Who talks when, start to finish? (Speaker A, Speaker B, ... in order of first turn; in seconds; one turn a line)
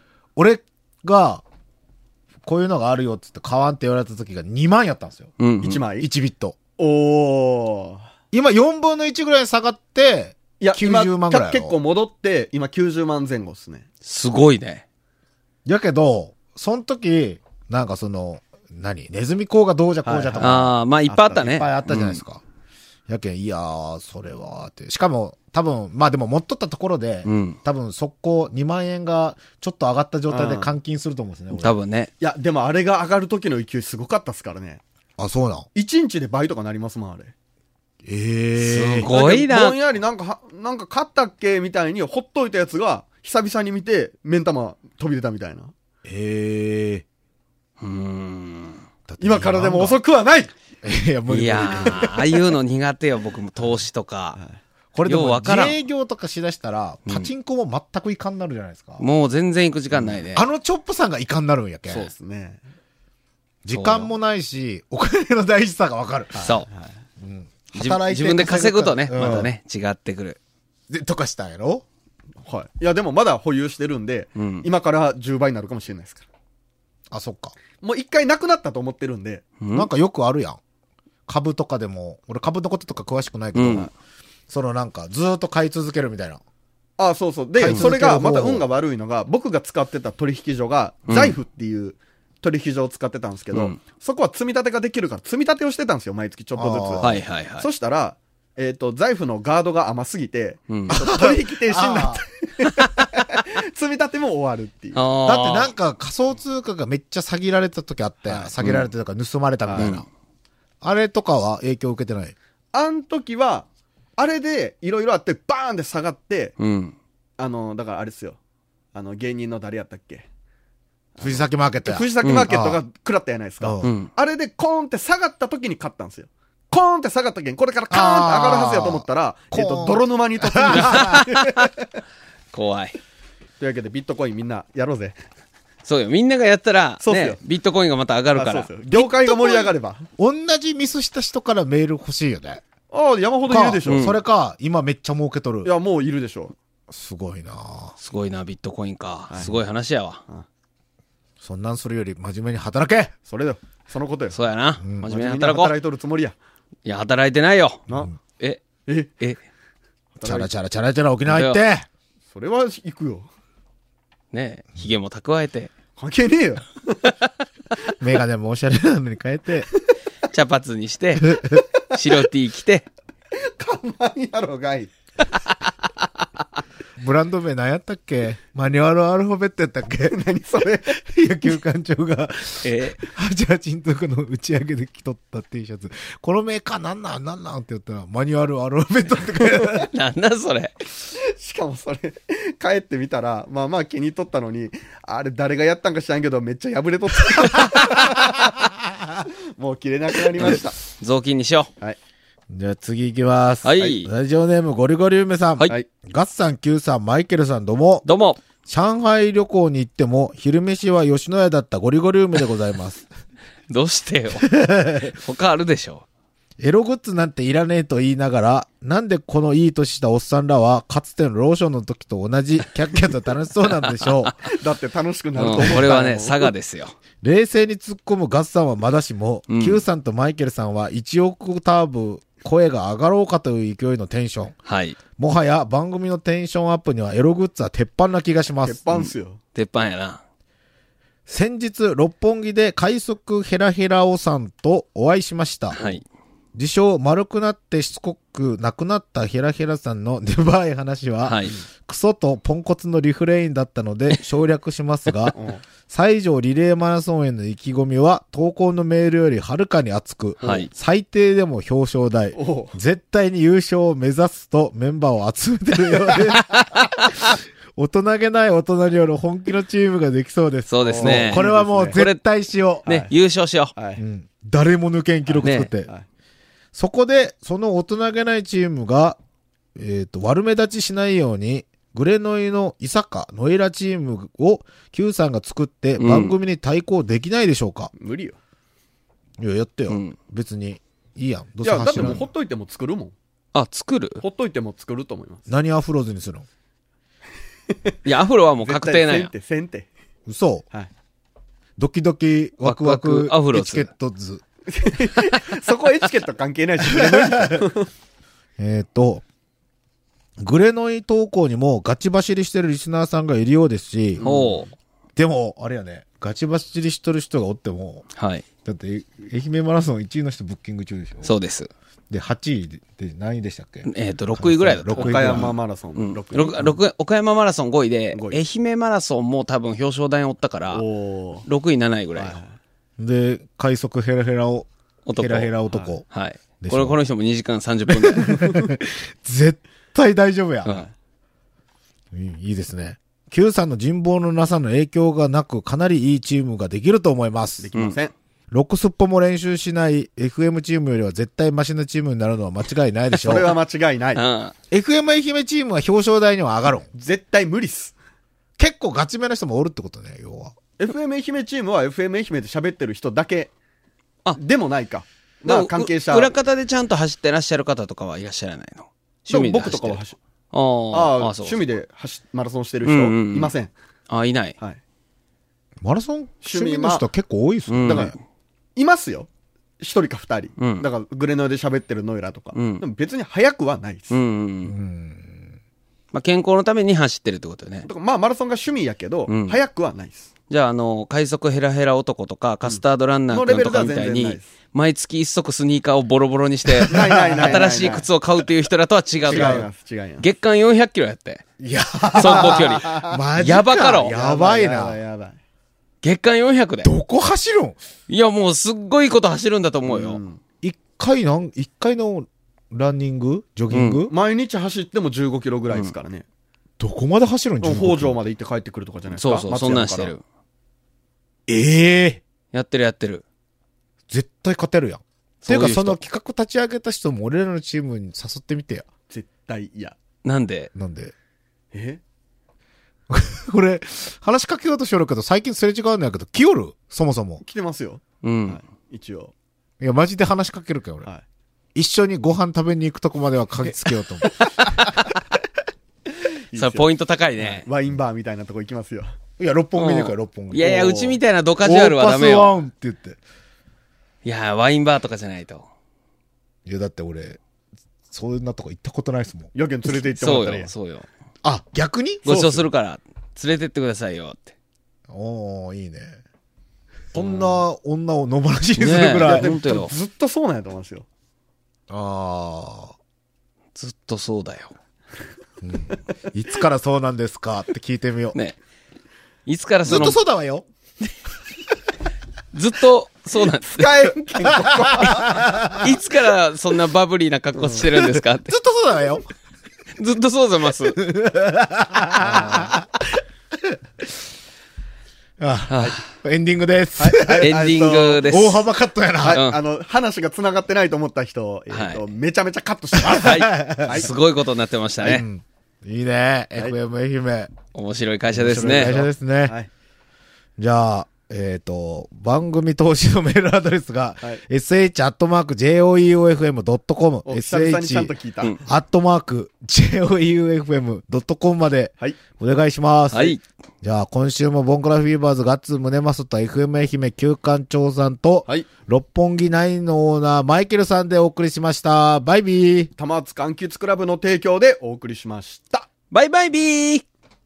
Speaker A: 0.3-1.4
Speaker A: 2.4-5.3
Speaker B: 5.4-5.8
Speaker C: 5.6-6.1
Speaker A: 6.0-6.6
Speaker C: 6.8-8.0
Speaker A: 8.3-11.7
Speaker C: 10.6-13.8
Speaker B: 14.0-14.8
Speaker A: 15.6-20.8
Speaker C: 20.0-21.7
Speaker B: 20.4-22.2
Speaker A: 21.4-22.4
Speaker A: 23.1-31.7
Speaker B: 27.2-27.6
Speaker C: 30.3-30.7
Speaker B: 31.5-32.1
Speaker C: 32.2-34.8
Speaker A: 35.2-35.6
Speaker C: 35.7-37.3
Speaker A: 38.0-39.1
Speaker B: 38.6-39.8
Speaker C: 39.0-45.7
Speaker A: 46.0-47.0
Speaker B: 47.8-48.8
Speaker A: 49.1-50.0
Speaker C: 49.2-50.5
Speaker A: 50.8-52.5
Speaker B: 51.3-54.4
Speaker A: 54.9-59.0
Speaker B: 55.0-55.8
Speaker B: 57.0-57.3
Speaker B: 59.0-60.5
Speaker A: 60.1-62.1
Speaker C: 61.9-62.6
Speaker A: 63.6-66.5
Speaker B: 63.7-64.1
Speaker C: 66.3-66.9
Speaker B: 66.4-66.7
Speaker A: 67.2-69.5
Speaker B: 67.7-70.4
Speaker C: 69.2-69.5
Speaker A: 70.9-71.8
Speaker C: 72.4-76.2
Speaker B: 74.4-74.7
Speaker A: 77.1-77.5
Speaker C: 77.8-79.5
Speaker B: 79.6-79.9
Speaker A: 79.7-80.6
Speaker A: 81.3-83.9
Speaker B: 83.5-83.9
Speaker A: 84.5-86.4
Speaker C: 87.0-105.1
Speaker A: 87.6-88.6
Speaker B: 91.1-91.3
Speaker B: 93.5-93.8
Speaker A: 96.5-97.2
Speaker B: 97.0-97.7
Speaker B: 100.7-101.0
Speaker A: 100.9-102.2
Speaker B: 104.9-105.7
Speaker A: 105.2-110.0
Speaker C: 108.2-108.5
Speaker B: 108.6-108.8
Speaker C: 109.7-109.9
Speaker B: 109.8-110.0
Speaker A: 110.8-112.3
Speaker C: 112.7-116.5
Speaker B: 116.6-116.9
Speaker C: 117.4-118.4
Speaker C: 118.9-120.2
Speaker C: 121.1-131.9
Speaker A: 121.2-122.8
Speaker A: 123.6-123.9
Speaker B: 123.8-124.1
Speaker A: 127.9-131.2
Speaker B: 130.7-131.7
Speaker B: 132.5-133.0
Speaker C: 133.6-135.2
Speaker B: 135.8-138.7
Speaker C: 137.0-137.4
Speaker C: 138.3-140.1
Speaker A: 138.9-142.6
Speaker C: 142.9-144.1
Speaker A: 143.5-145.7
Speaker B: 143.9-144.2
Speaker C: 145.6-146.5
Speaker A: 146.9-147.9
Speaker B: 148.0-150.2
Speaker C: 149.3-149.6
Speaker A: 151.4-153.1
Speaker C: 153.3-154.4
Speaker B: 154.3-155.7
Speaker A: 154.8-155.1
Speaker C: 155.1-156.3
Speaker B: 156.8-157.8
Speaker C: 157.9-158.1
Speaker C: 160.1-160.5
Speaker A: 160.2-161.8
Speaker B: 161.3-161.6
Speaker C: 162.3-163.3
Speaker B: 164.3-165.7
Speaker C: 166.0-167.2
Speaker A: 168.0-169.7
Speaker B: 170.3-172.9
Speaker A: 171.3-171.6
Speaker C: 173.4-174.9
Speaker B: 175.2-175.5
Speaker A: 177.0-180.2
Speaker C: 180.1-181.0
Speaker A: 181.0-189.9
Speaker B: 182.6-183.0
Speaker C: 189.5-189.7
Speaker B: 189.9-190.7
Speaker C: 191.1-198.6
Speaker A: 197.5-198.2
Speaker C: 199.2-200.8
Speaker B: 200.4-201.7
Speaker A: 202.5-208.1
Speaker B: 203.6-204.1
Speaker B: 208.0-208.4
Speaker A: 208.7-213.1
Speaker B: 213.7-216.0
Speaker A: 214.4-215.1
Speaker A: 216.6-224.3
Speaker B: 223.9-224.4
Speaker C: 224.4-226.5
Speaker B: 225.3-226.9
Speaker A: 227.2-234.5
Speaker B: 229.5-229.8
Speaker B: 234.7-235.0
Speaker A: 235.2-238.8
Speaker C: 238.6-239.4
Speaker B: 239.5-240.2
Speaker A: 241.3-246.0
Speaker B: 245.7-246.0
Speaker A: 246.5-255.3
Speaker B: 251.2-251.6
Speaker C: 255.3-255.6
Speaker A: 255.9-272.9
Speaker C: 260.4-260.7
Speaker B: 260.4-260.7
Speaker C: 262.3-262.7
Speaker B: 270.7-272.2
Speaker C: 270.8-272.0
Speaker B: 272.8-273.7
Speaker C: 272.9-273.1
Speaker C: 273.7-274.0
Speaker A: 274.0-275.9
Speaker C: 275.3-276.0
Speaker B: 275.4-275.7
Speaker A: 276.7-279.2
Speaker A: 279.7-287.9
Speaker B: 286.0-286.3
Speaker C: 288.0-288.4
Speaker A: 289.4-292.3
Speaker B: 289.9-290.1
Speaker C: 291.6-293.1
Speaker B: 293.5-294.2
Speaker C: 294.2-295.5
Speaker A: 295.5-296.4
Speaker C: 297.7-297.9
Speaker B: 298.0-299.3
Speaker C: 298.6-299.9
Speaker A: 300.3-300.6
Speaker A: 301.8-304.4
Speaker B: 302.6-303.9
Speaker C: 304.7-307.9
Speaker A: 306.9-307.7
Speaker A: 308.6-309.2
Speaker A: 310.4-314.2
Speaker C: 314.2-314.6
Speaker B: 314.2-314.7
Speaker A: 315.1-318.1
Speaker B: 318.1-318.4
Speaker A: 318.6-321.3
Speaker B: 321.2-321.7
Speaker A: 322.1-325.6
Speaker B: 323.8-330.8
Speaker C: 324.9-326.8
Speaker C: 328.1-328.4
Speaker C: 330.7-331.5
Speaker B: 331.4-332.4
Speaker C: 332.1-332.6
Speaker A: 333.0-336.1
Speaker B: 335.1-335.5
Speaker C: 335.7-336.0
Speaker B: 336.1-338.4
Speaker A: 336.6-337.0
Speaker A: 338.1-340.8
Speaker C: 338.2-338.7
Speaker A: 342.1-347.7
Speaker C: 347.6-348.1
Speaker A: 348.5-353.5
Speaker C: 353.2-354.2
Speaker B: 354.1-354.5
Speaker A: 354.7-356.9
Speaker C: 356.9-357.9
Speaker A: 358.6-360.6
Speaker C: 360.8-363.5
Speaker C: 364.3-366.4
Speaker B: 365.4-371.6
Speaker C: 369.3-370.2
Speaker C: 370.9-373.7
Speaker B: 372.8-373.5
Speaker B: 374.1-374.6
Speaker A: 375.8-378.1
Speaker C: 376.4-377.0
Speaker B: 377.7-378.1
Speaker C: 377.9-378.1
Speaker C: 378.8-379.3
Speaker C: 379.8-384.2
Speaker B: 380.6-380.9
Speaker B: 382.5-382.8
Speaker B: 384.1-384.7
Speaker A: 384.6-385.6
Speaker B: 386.1-387.9
Speaker C: 387.8-390.3
Speaker B: 389.3-389.6
Speaker B: 390.5-399.6
Speaker C: 392.6-394.5
Speaker C: 396.9-398.1
Speaker A: 396.9-397.6
Speaker C: 399.2-400.2
Speaker A: 399.3-399.6
Speaker B: 400.2-401.4
Speaker A: 401.6-405.0
Speaker C: 402.1-403.2
Speaker B: 402.2-404.1
Speaker C: 404.1-405.4
Speaker B: 406.0-406.9
Speaker A: 406.8-407.8
Speaker B: 408.1-410.2
Speaker C: 409.9-410.4
Speaker A: 410.6-414.1
Speaker B: 413.7-414.0
Speaker C: 414.1-416.2
Speaker A: 416.8-418.2
Speaker C: 417.6-420.1
Speaker B: 419.1-420.2
Speaker A: 421.5-422.2
Speaker B: 422.5-423.2
Speaker A: 424.1-428.9
Speaker B: 425.4-426.0
Speaker C: 429.1-429.9
Speaker B: 430.2-430.7
Speaker A: 430.7-431.1
Speaker C: 431.7-432.0
Speaker A: 433.1-437.4
Speaker C: 437.4-439.3
Speaker B: 438.2-438.6
Speaker A: 439.8-441.1
Speaker A: 441.7-444.7
Speaker B: 444.4-445.1
Speaker C: 446.5-449.1
Speaker B: 446.5-447.6
Speaker A: 449.4-453.2
Speaker B: 449.8-452.6
Speaker B: 454.2-455.6
Speaker A: 456.6-457.4
Speaker A: 458.1-459.5
Speaker C: 459.5-460.7
Speaker B: 459.9-461.1
Speaker A: 461.4-462.7
Speaker B: 462.2-464.5
Speaker A: 465.1-466.2
Speaker A: 467.1-469.6
Speaker B: 467.1-467.6
Speaker B: 468.8-469.9
Speaker C: 469.2-471.1
Speaker A: 471.9-472.9
Speaker B: 473.7-474.7
Speaker A: 475.6-478.4
Speaker B: 479.4-480.2
Speaker A: 479.9-480.6
Speaker B: 482.5-483.9
Speaker C: 483.6-485.6
Speaker A: 484.5-485.9
Speaker B: 485.8-488.6
Speaker C: 487.6-487.8
Speaker A: 488.0-489.2
Speaker B: 490.0-491.0
Speaker A: 491.0-493.0
Speaker C: 492.2-492.7
Speaker A: 495.4-497.6
Speaker B: 495.7-496.0
Speaker C: 497.0-498.3
Speaker B: 497.4-498.6
Speaker A: 498.2-499.4
Speaker C: 499.2-504.1
Speaker B: 499.3-499.6
Speaker B: 501.7-502.0
Speaker B: 503.1-505.2
Speaker A: 503.1-504.1
Speaker A: 505.0-507.5
Speaker B: 507.7-508.9
Speaker A: 508.3-509.6
Speaker C: 508.4-509.7
Speaker A: 510.6-518.1
Speaker C: 517.2-518.6
Speaker A: 518.6-532.9
Speaker B: 523.1-523.4
Speaker C: 533.0-535.9
Speaker B: 536.1-537.0